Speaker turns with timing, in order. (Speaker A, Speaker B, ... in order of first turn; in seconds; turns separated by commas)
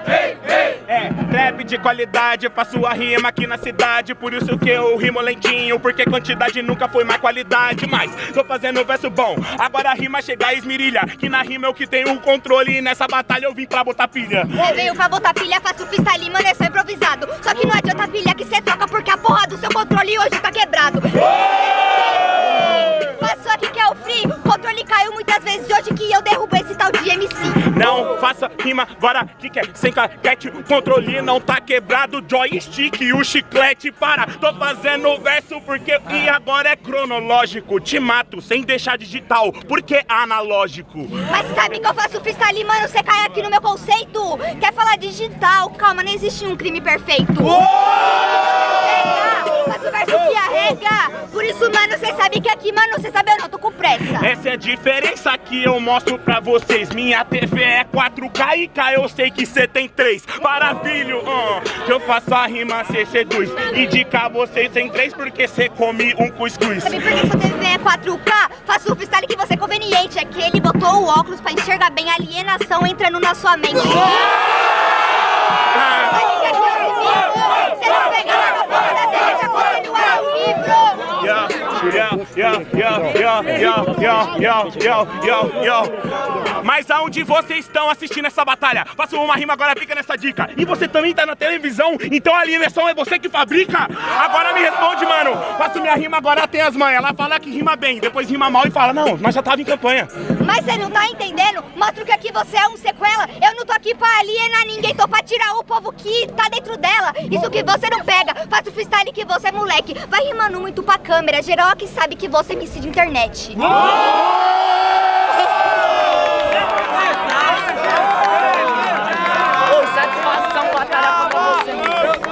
Speaker A: 0.2-14.6, Speaker B: 14.6-27.6, Speaker A: 27.7-41.1, Speaker B: 41.3-54.3, Speaker A: 54.2-67.2, Speaker B: 66.8-74.4, Speaker A: 75.7-76.2, Speaker B: 76.0-81.1, Speaker A: 81.2-86.0, Speaker A: 86.5-100.1, Speaker B: 100.4-113.6, Speaker C: 119.7-122.0